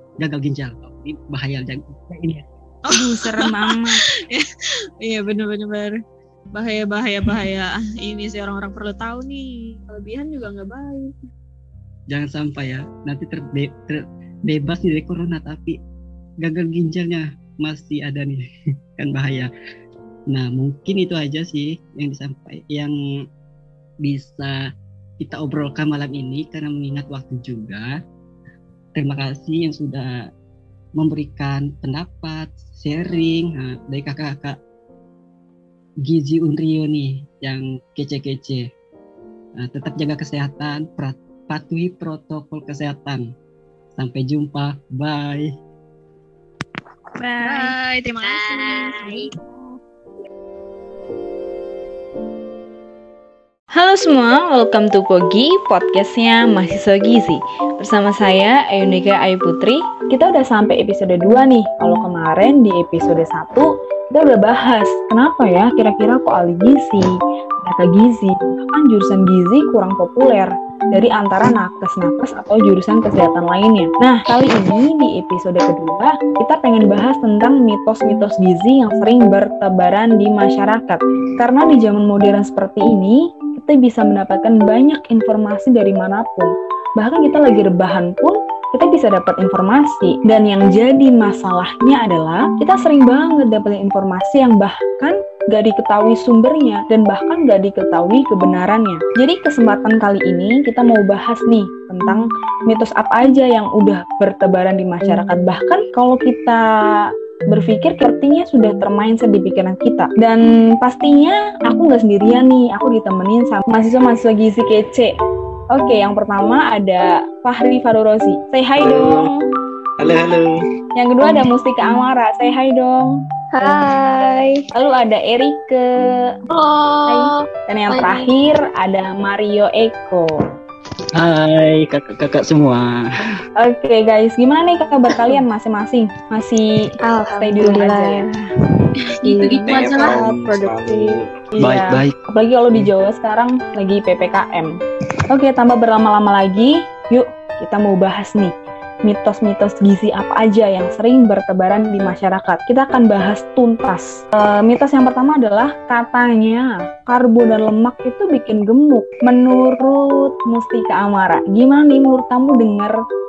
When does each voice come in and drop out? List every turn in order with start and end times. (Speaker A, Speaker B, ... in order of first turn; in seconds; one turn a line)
Speaker A: 0.2-2.5
Speaker B: 2.9-3.2
Speaker C: 2.9-4.0
Speaker B: 5.0-6.0
Speaker B: 6.5-11.1
Speaker A: 12.1-15.8
Speaker A: 16.4-18.4
Speaker A: 19.0-19.5
Speaker A: 20.3-22.9
Speaker A: 24.0-24.6
Speaker A: 25.2-27.9
Speaker A: 29.0-30.3
Speaker A: 31.0-34.6
Speaker A: 36.1-38.7
Speaker A: 39.6-43.2
Speaker A: 44.0-45.5
Speaker C: 47.2-47.7
Speaker B: 47.4-49.4
Speaker D: 48.2-49.3
Speaker C: 53.8-67.1
Speaker C: 67.6-115.1
Speaker C: 115.7-119.4
Speaker E: 118.8-119.3
Speaker E: 120.0-120.6
Speaker C: 121.0-123.2
Speaker F: 123.5-124.6
Speaker C: 124.7-125.9
Speaker D: 126.5-128.2
Speaker C: 127.1-130.3
Speaker A: 131.2-133.0
Speaker C: 133.6-136.8
Speaker F: 137.0-141.2
Speaker C: 137.3-138.3
Speaker D: 139.1-140.2
Speaker E: 139.7-141.2
Speaker C: 141.6-144.8
Speaker A: 141.6-142.2
Speaker C: 145.3-148.5
Speaker C: 149.1-162.9